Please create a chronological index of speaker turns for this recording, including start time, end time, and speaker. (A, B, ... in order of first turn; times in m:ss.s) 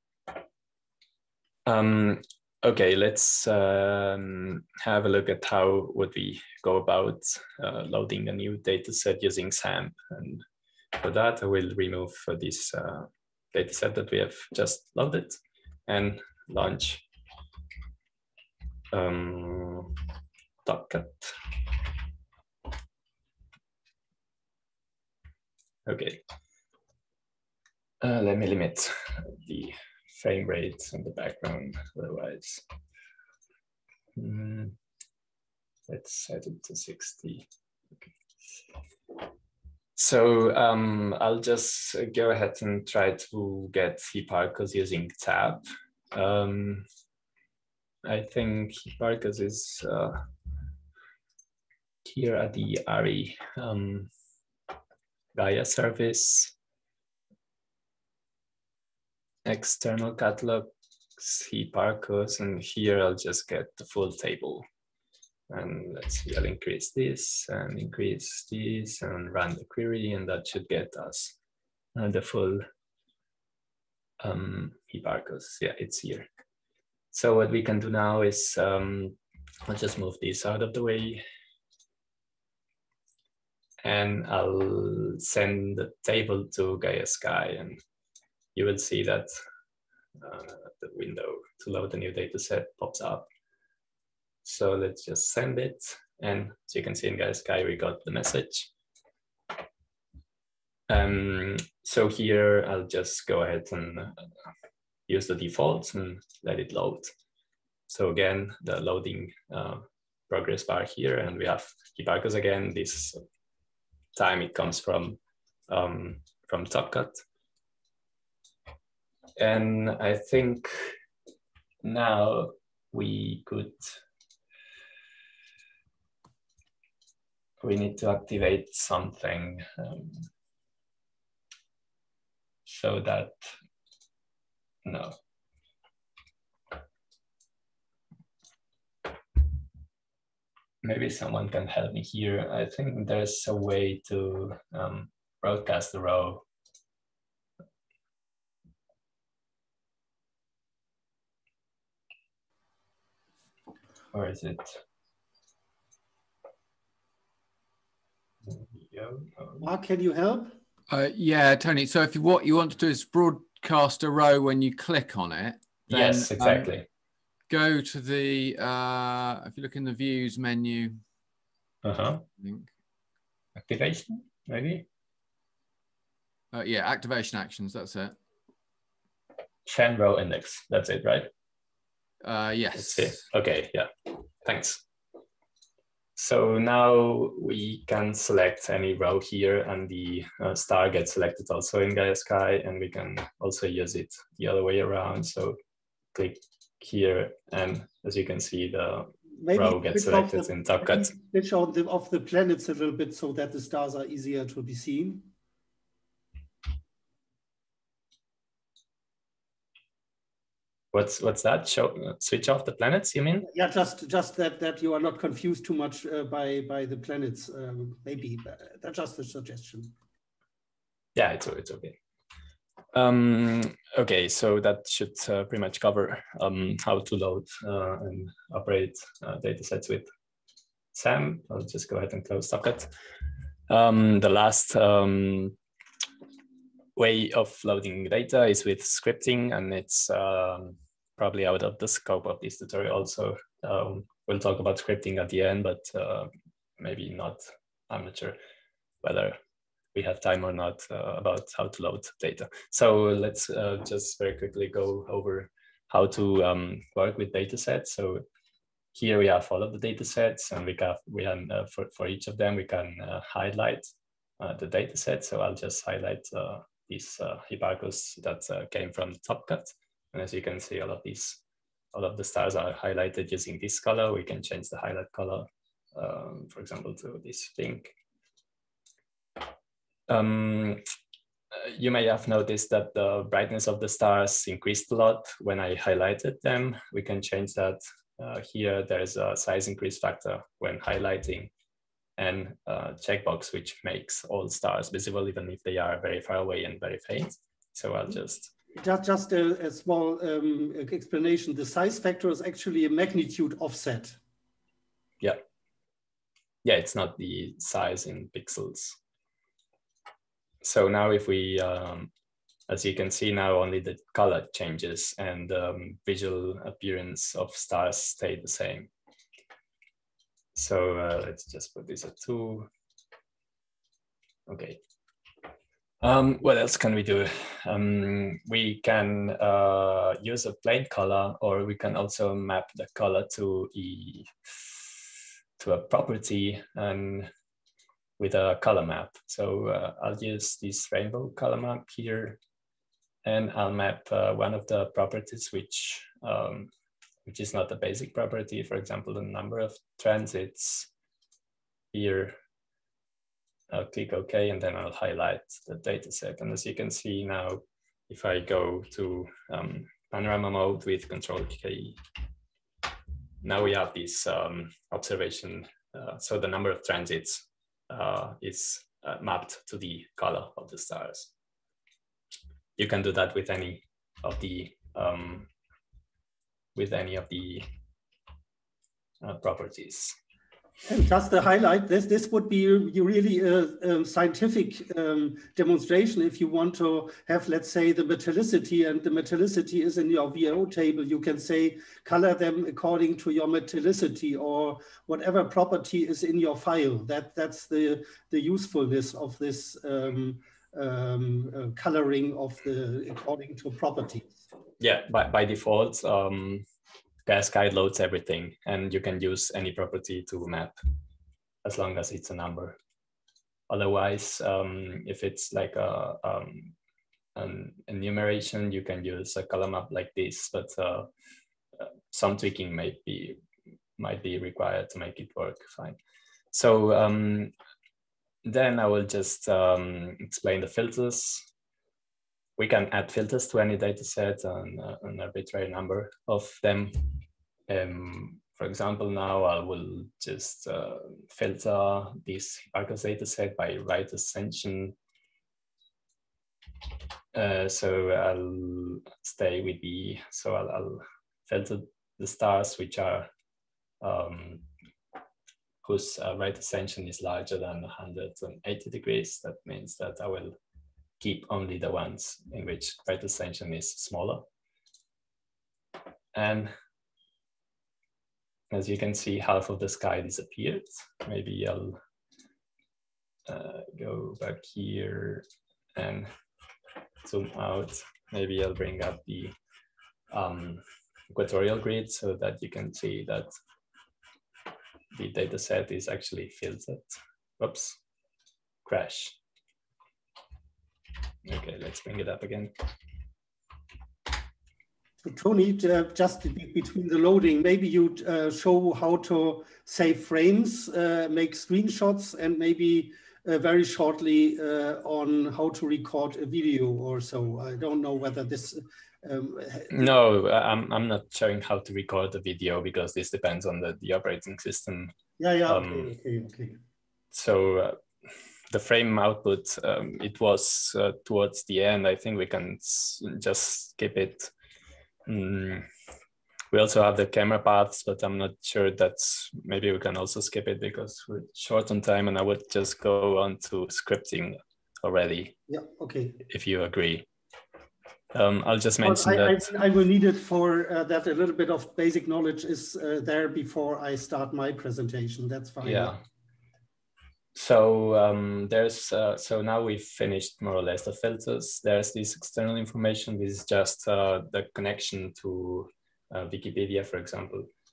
0:01.6-0:10.4 A
0:10.9-0:17.0 A
0:18.9-0:20.0 A
0:20.6-0:21.4 A
0:25.9-0:26.2 A
0:28.0-0:32.6 A
0:34.1-0:34.7 A
0:35.9-0:37.5 A
0:40.0-0:46.9 A
0:48.0-0:50.2 A
0:52.0-0:54.1 A
0:55.3-0:56.5 A
0:59.4-1:04.6 A
1:05.5-1:11.4 A
1:11.9-1:12.6 A
1:14.2-1:16.3 A
1:17.1-1:21.2 A
1:23.8-1:27.8 A
1:28.5-1:29.3 A
1:30.2-1:33.3 A
1:34.4-1:38.7 A
1:40.9-1:44.2 A
1:45.1-1:47.1 A
1:47.9-1:53.2 A
1:54.1-1:57.2 A
1:59.4-2:01.0 A
2:01.8-2:04.0 A
2:07.6-2:10.2 A
2:12.6-2:13.4 A
2:14.8-2:15.1 A
2:20.8-2:26.4 A
2:34.1-2:34.8 A
2:38.5-2:39.7 A
2:39.6-2:40.5 B
2:40.9-2:46.7 C
2:45.9-2:46.8 A
2:47.5-2:51.0 C
2:51.8-2:52.2 A
2:52.4-2:52.7 C
2:53.6-2:54.9 A
2:56.5-2:58.2 C
2:59.6-3:01.3 A
3:02.2-3:03.2 C
3:02.7-3:04.8 A
3:06.2-3:15.6 A
3:16.1-3:21.1 A
3:19.4-3:25.3 B
3:30.9-3:33.5 A
3:33.5-3:39.9 B
3:41.1-3:42.0 A
3:42.9-3:50.1 A
3:50.9-3:52.9 A
3:53.7-3:55.6 A
3:57.0-4:08.4 A
4:09.0-4:09.4 A
4:09.9-4:18.2 A
4:18.9-4:23.9 A
4:24.4-4:31.4 A
4:31.9-4:37.9 A
4:40.1-4:40.8 A
4:41.5-4:51.5 A
4:52.2-4:58.5 A
4:58.7-5:04.2 B
5:06.6-5:09.0 A
5:10.6-5:12.1 A
5:12.7-5:18.9 A
5:20.5-5:22.7 A
5:24.5-5:24.8 A
5:26.0-5:34.9 A
5:35.6-5:37.3 A
5:38.2-5:42.4 A
5:43.2-5:46.7 A
5:47.2-5:50.9 A
5:51.9-5:52.4 A
5:53.7-6:02.0 A
6:03.4-6:11.3 A
6:12.8-6:15.5 A
6:16.7-6:17.7 A
6:19.2-6:20.1 A
6:20.9-6:44.4 B
6:44.8-6:46.6 A
6:47.2-6:50.7 A
6:51.6-6:52.8 A
6:53.7-6:56.7 A
6:57.3-7:01.1 A
7:01.8-7:03.4 A
7:04.0-7:06.0 A
7:06.5-7:07.5 A
7:08.4-7:11.5 A
7:12.6-7:24.9 A
7:27.3-7:33.3 A
7:34.0-7:34.7 A
7:35.8-7:40.6 A
7:41.2-7:44.4 A
7:46.3-7:46.7 A
7:48.7-7:52.0 A
7:53.4-7:56.3 A
7:57.2-7:59.5 A
8:00.3-8:03.5 A
8:05.1-8:08.0 A
8:08.8-8:09.4 A
8:11.4-8:12.7 A
8:15.2-8:30.0 B
8:29.9-8:35.1 A
8:35.4-8:36.8 B
8:35.6-8:36.1 A
8:37.3-8:38.0 A
8:38.7-8:44.5 A
8:45.2-8:45.9 A
8:46.7-8:55.6 A
8:55.7-8:56.4 B
8:56.5-8:57.3 A
8:58.3-8:59.7 A
8:59.0-9:06.2 B
9:05.8-9:06.2 A
9:07.5-9:17.7 A